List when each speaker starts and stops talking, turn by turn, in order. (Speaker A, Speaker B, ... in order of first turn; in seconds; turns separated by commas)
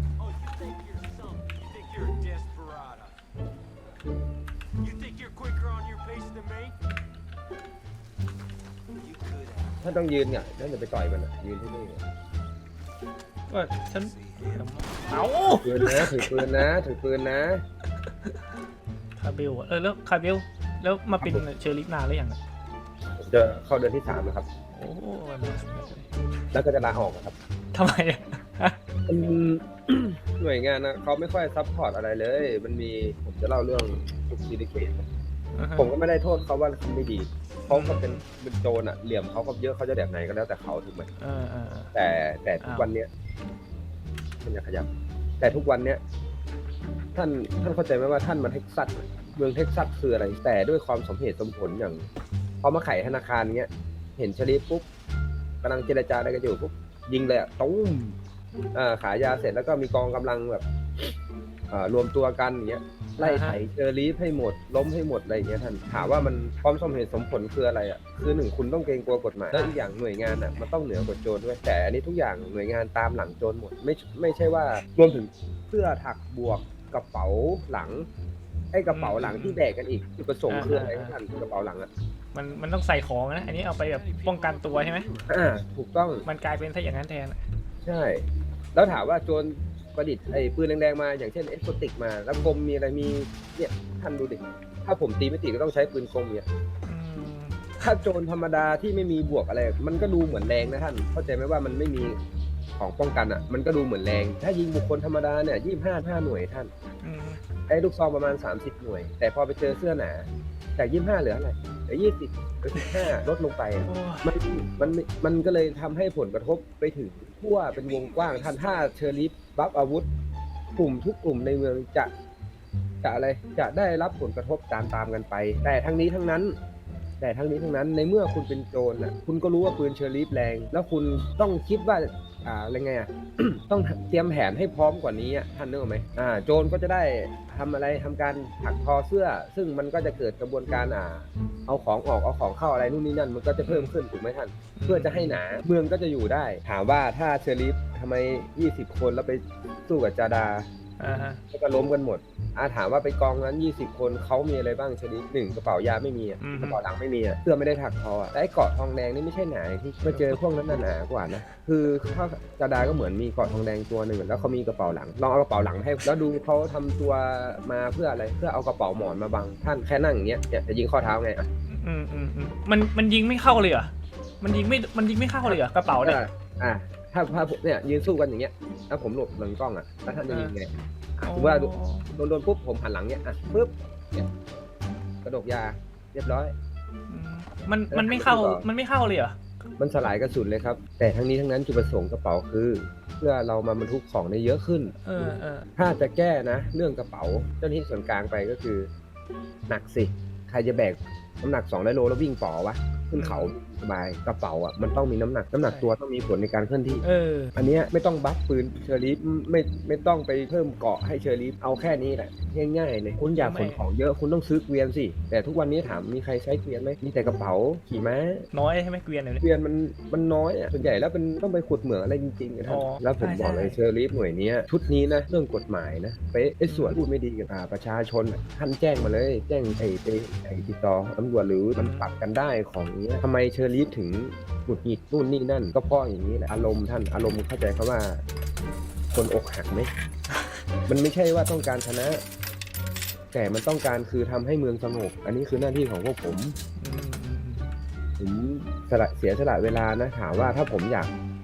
Speaker A: 0.2-3.1, Speaker A: 4.8-6.7, Speaker A: 9.2-9.7, Speaker B: 9.8-12.0, Speaker C: 13.5-16.4, Speaker B: 15.6-17.6, Speaker C: 19.2-22.4, Speaker B: 23.2-24.5, Speaker C: 24.7-26.1, Speaker B: 26.5-27.4, Speaker C: 27.7-28.8, Speaker B: 29.1-35.1, Speaker C: 35.5-35.9, Speaker B: 35.8-41.1, Speaker C: 37.7-38.2, Speaker C: 41.2-41.9, Speaker B: 41.9-43.1, Speaker C: 42.6-42.9, Speaker B: 44.4-44.9, Speaker B: 45.4-46.0, Speaker B: 47.1-52.1, Speaker B: 52.6-54.9, Speaker B: 55.6-58.2, Speaker B: 58.7-60.6, Speaker B: 61.7-78.1, Speaker C: 63.2-63.6, Speaker C: 65.9-66.4, Speaker C: 69.5-69.8, Speaker B: 78.7-81.9, Speaker C: 78.9-79.6, Speaker C: 80.5-81.2, Speaker C: 82.3-85.1, Speaker B: 85.3-86.3, Speaker C: 86.3-87.4, Speaker B: 87.8-96.5, Speaker C: 96.9-97.8, Speaker B: 97.8-102.2, Speaker B: 102.8-106.7, Speaker C: 107.0-107.4, Speaker B: 107.7-120.1, Speaker C: 112.8-113.2, Speaker C: 113.8-114.3, Speaker B: 120.8-122.1, Speaker B: 123.0-126.6, Speaker B: 127.2-150.7, Speaker C: 143.6-143.9, Speaker C: 144.8-145.4, Speaker C: 151.0-151.4, Speaker B: 151.5-171.5, Speaker C: 156.4-156.8, Speaker C: 160.1-160.4, Speaker C: 171.7-176.2, Speaker B: 175.4-184.3, Speaker C: 180.3-180.5, Speaker C: 181.2-182.1, Speaker B: 185.2-186.6, Speaker C: 187.1-189.4, Speaker B: 187.9-188.7, Speaker B: 189.8-195.0, Speaker C: 195.0-195.7, Speaker B: 195.8-198.9, Speaker B: 199.7-207.0, Speaker C: 203.2-203.5, Speaker C: 205.7-206.0, Speaker C: 207.0-207.5, Speaker B: 207.6-218.5, Speaker C: 213.4-213.8, Speaker C: 218.5-219.4, Speaker B: 219.4-238.2, Speaker C: 222.7-223.8, Speaker C: 226.7-227.0, Speaker C: 231.8-232.2, Speaker B: 239.1-239.9, Speaker B: 240.9-242.2, Speaker B: 243.3-246.6, Speaker C: 246.8-247.7, Speaker B: 248.2-251.1